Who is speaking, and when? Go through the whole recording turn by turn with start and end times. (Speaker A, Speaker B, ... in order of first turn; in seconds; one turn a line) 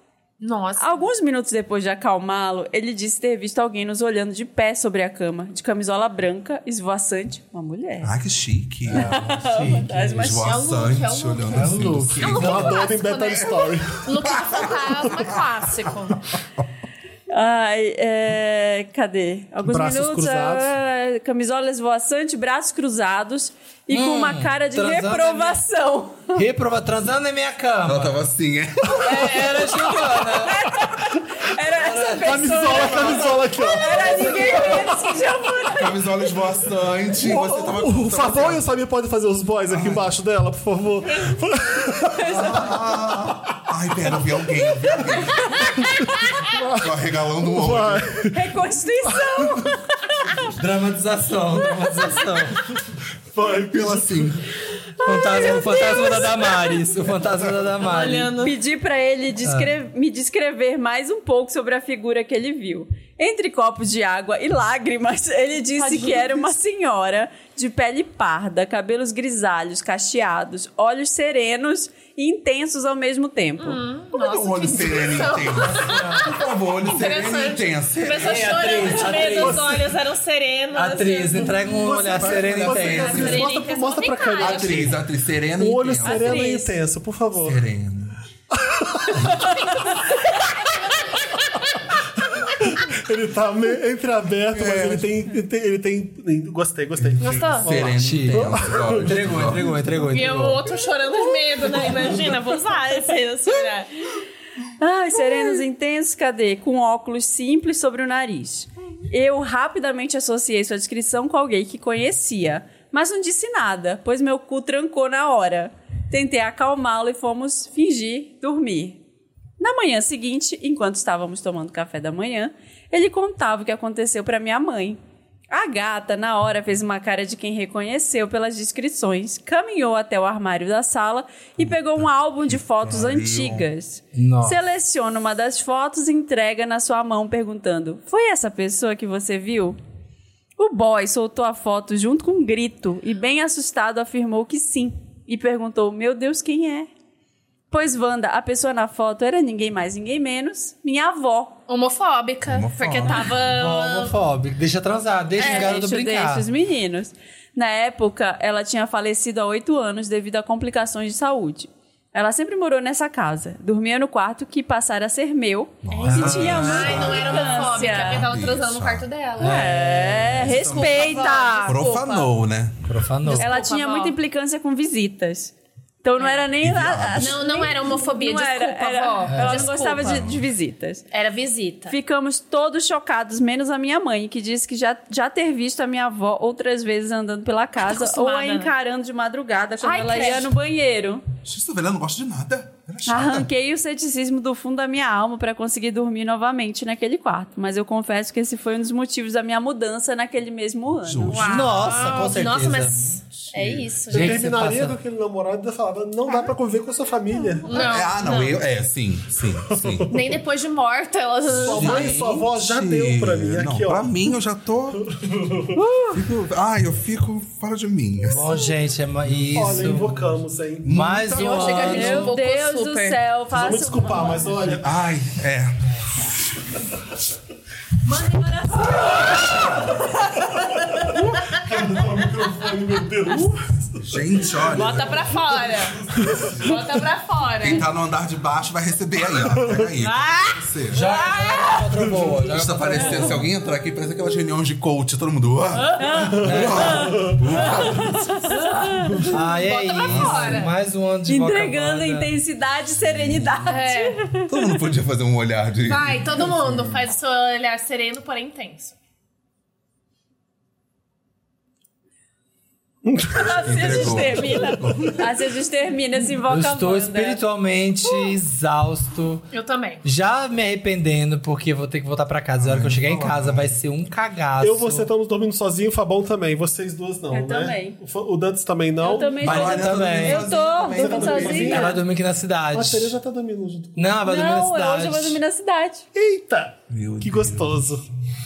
Speaker A: 0.4-1.1
Speaker B: 0.8-8.1
Speaker C: 8.0-9.3
Speaker D: 8.9-10.4
Speaker B: 8.9-10.7
Speaker C: 10.1-16.6
Speaker A: 10.4-16.2
Speaker D: 11.5-12.8
Speaker E: 12.2-14.0
Speaker B: 17.3-26.4
Speaker E: 19.6-20.7
Speaker D: 23.9-25.6
Speaker D: 26.3-28.2
Speaker C: 27.9-28.9
Speaker D: 29.0-30.6
Speaker B: 29.0-36.0
Speaker E: 29.1-29.5
Speaker D: 31.7-32.8
Speaker E: 32.2-35.0
Speaker C: 32.6-34.2
Speaker D: 34.0-34.8
Speaker C: 35.8-38.7
Speaker E: 37.2-42.6
Speaker C: 39.7-40.1
Speaker C: 42.2-45.7
Speaker B: 42.2-42.8
Speaker E: 45.7-48.4
Speaker C: 46.8-48.2
Speaker B: 48.3-50.0
Speaker E: 49.1-49.7
Speaker D: 50.5-52.6
Speaker E: 53.3-54.3
Speaker C: 53.5-54.5
Speaker D: 55.0-58.4
Speaker B: 55.0-56.5
Speaker A: 57.8-58.5
Speaker B: 58.4-73.8
Speaker D: 59.4-59.7
Speaker A: 65.8-66.5
Speaker A: 73.6-81.7
Speaker C: 74.1-78.8
Speaker D: 75.7-76.3
Speaker D: 78.2-79.9
Speaker E: 79.4-79.7
Speaker D: 80.7-83.5
Speaker E: 81.4-85.0
Speaker C: 82.1-83.5
Speaker A: 82.8-85.0
Speaker C: 84.4-86.4
Speaker E: 85.5-87.6
Speaker A: 86.0-86.8
Speaker C: 87.4-88.2
Speaker E: 88.5-89.8
Speaker E: 92.0-99.5
Speaker C: 94.5-95.3
Speaker C: 97.0-99.7
Speaker A: 97.2-97.9
Speaker D: 98.0-100.7
Speaker A: 100.0-103.9
Speaker B: 104.8-119.0
Speaker B: 119.6-125.0
Speaker B: 125.5-139.8
Speaker C: 131.6-133.7
Speaker D: 134.1-134.6
Speaker B: 140.6-146.9
Speaker B: 147.7-151.6
Speaker A: 151.7-154.2
Speaker C: 152.5-153.4
Speaker D: 153.5-156.4
Speaker A: 155.4-155.8
Speaker B: 155.4-168.2
Speaker C: 165.8-169.1
Speaker A: 165.9-172.3
Speaker D: 166.1-166.7
Speaker D: 169.4-170.4
Speaker B: 169.4-171.8
Speaker C: 170.3-172.9
Speaker D: 172.8-173.5
Speaker A: 173.3-174.2
Speaker B: 173.3-181.0
Speaker A: 176.2-176.4
Speaker C: 176.6-177.4
Speaker A: 177.1-180.2
Speaker D: 179.3-179.7
Speaker C: 180.0-180.4
Speaker A: 181.1-181.9
Speaker B: 181.9-191.2
Speaker A: 187.8-188.7
Speaker A: 189.8-190.5
Speaker C: 191.4-193.5
Speaker B: 193.1-201.7
Speaker C: 201.0-201.6
Speaker A: 201.3-204.5
Speaker D: 201.4-203.2
Speaker C: 202.9-203.9
Speaker D: 204.1-205.0
Speaker E: 204.1-208.0
Speaker A: 207.7-208.6
Speaker C: 207.7-210.1
Speaker E: 209.6-210.4
Speaker A: 210.1-212.2
Speaker C: 211.5-215.0
Speaker E: 211.6-214.3
Speaker E: 215.2-215.8
Speaker C: 216.1-218.5
Speaker D: 218.3-220.3
Speaker E: 219.5-221.0
Speaker C: 220.8-221.9
Speaker D: 220.9-222.4
Speaker A: 221.3-223.2
Speaker B: 221.8-224.6
Speaker E: 223.5-224.9
Speaker C: 224.8-225.9
Speaker A: 228.0-229.7
Speaker E: 230.8-234.7
Speaker C: 234.0-235.4
Speaker A: 234.7-236.0
Speaker E: 236.0-236.7
Speaker C: 236.3-236.9
Speaker A: 236.5-237.8
Speaker C: 237.6-241.0
Speaker E: 239.6-239.9
Speaker A: 240.3-241.8
Speaker D: 240.9-243.4
Speaker C: 242.4-248.4
Speaker A: 245.8-246.0
Speaker B: 246.0-249.2
Speaker D: 246.4-247.0
Speaker E: 246.8-247.4
Speaker A: 249.3-250.7
Speaker D: 249.3-252.3
Speaker C: 249.9-250.6
Speaker B: 251.3-254.7
Speaker C: 253.0-253.7
Speaker A: 253.7-254.2
Speaker C: 254.4-257.0
Speaker A: 255.8-258.9
Speaker E: 263.0-265.2
Speaker B: 263.3-267.4
Speaker C: 263.6-265.2
Speaker D: 266.4-269.5
Speaker A: 269.5-270.0
Speaker D: 270.0-275.1
Speaker C: 272.6-273.8
Speaker E: 274.6-280.0
Speaker B: 277.3-278.0
Speaker B: 279.0-282.0
Speaker D: 279.4-280.5
Speaker C: 279.4-281.8
Speaker E: 280.9-282.0
Speaker D: 281.6-283.1
Speaker E: 282.7-284.1
Speaker D: 283.9-285.4
Speaker B: 284.2-286.1
Speaker E: 286.1-288.1
Speaker C: 286.9-287.9